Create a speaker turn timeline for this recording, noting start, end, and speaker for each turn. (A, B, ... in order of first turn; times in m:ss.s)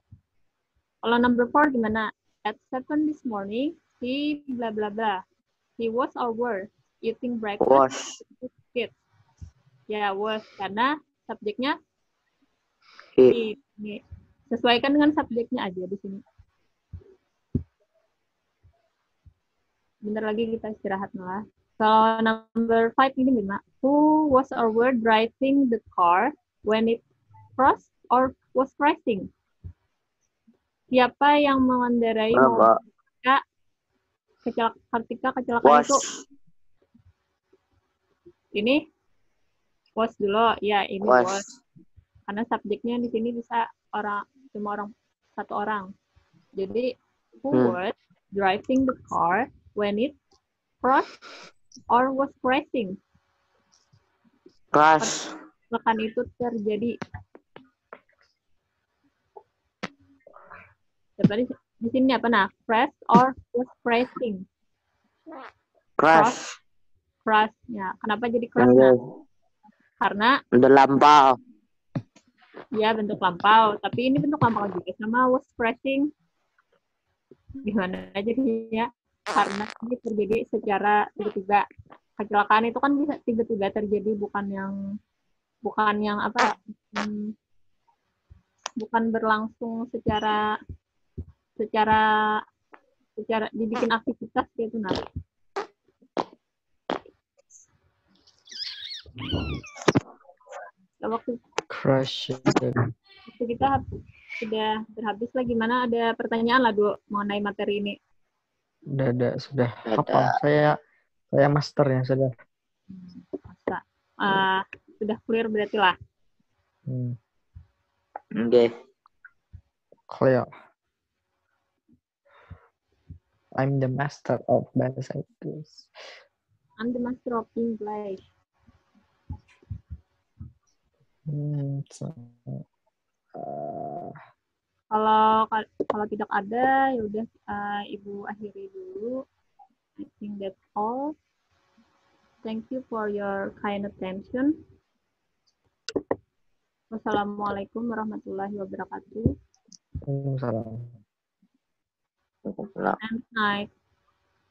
0:01.0-0:05.2 A
0:05.8-0:09.0 A
0:07.6-0:08.1 B
0:09.9-0:11.8 A
0:13.3-0:16.2 A
0:20.0-0:27.0 A
0:27.6-0:29.3 A
0:30.9-0:32.7 A
0:32.3-0:32.8 B
0:34.4-0:36.0 A
0:35.6-0:36.2 B
0:38.6-0:38.8 A
0:40.0-0:41.4 A
0:41.0-0:41.5 B
0:42.3-0:45.9 A
0:46.6-0:46.9 A
0:47.4-0:50.2 A
0:50.8-0:51.1 A
0:51.9-0:53.0 A
0:54.7-0:55.3 B
0:55.7-0:56.9 A
1:01.2-1:04.4 A
1:06.0-1:06.5 B
1:06.1-1:06.4 A
1:07.2-1:09.0 A
1:08.6-1:09.1 B
1:10.0-1:10.4 A
1:10.5-1:11.4 B
1:12.8-1:16.1 A
1:17.6-1:21.6 A
1:22.2-1:24.8 A
1:25.6-1:27.3 A
1:28.8-1:30.4 A
1:31.6-1:32.0 A
1:33.2-1:35.0 A
1:41.0-1:41.4 A
1:41.7-1:42.8 C
1:43.3-1:43.8 A
1:44.4-1:48.0 A
1:48.9-1:50.8 C
1:49.9-1:50.4 B
1:51.3-1:52.3 C
1:52.9-1:56.0 A
1:56.9-1:57.2 C
1:58.4-1:58.7 B
2:00.1-2:00.5 C
2:03.6-2:05.8 C
2:06.8-2:08.2 A
2:11.3-2:12.6 C
2:13.4-2:14.2 C
2:14.9-2:19.2 A
2:20.0-2:21.2 A
2:22.4-2:24.6 A
2:26.9-2:29.3 A
2:30.1-2:31.0 C
2:32.5-2:33.0 B
2:33.0-2:33.7 A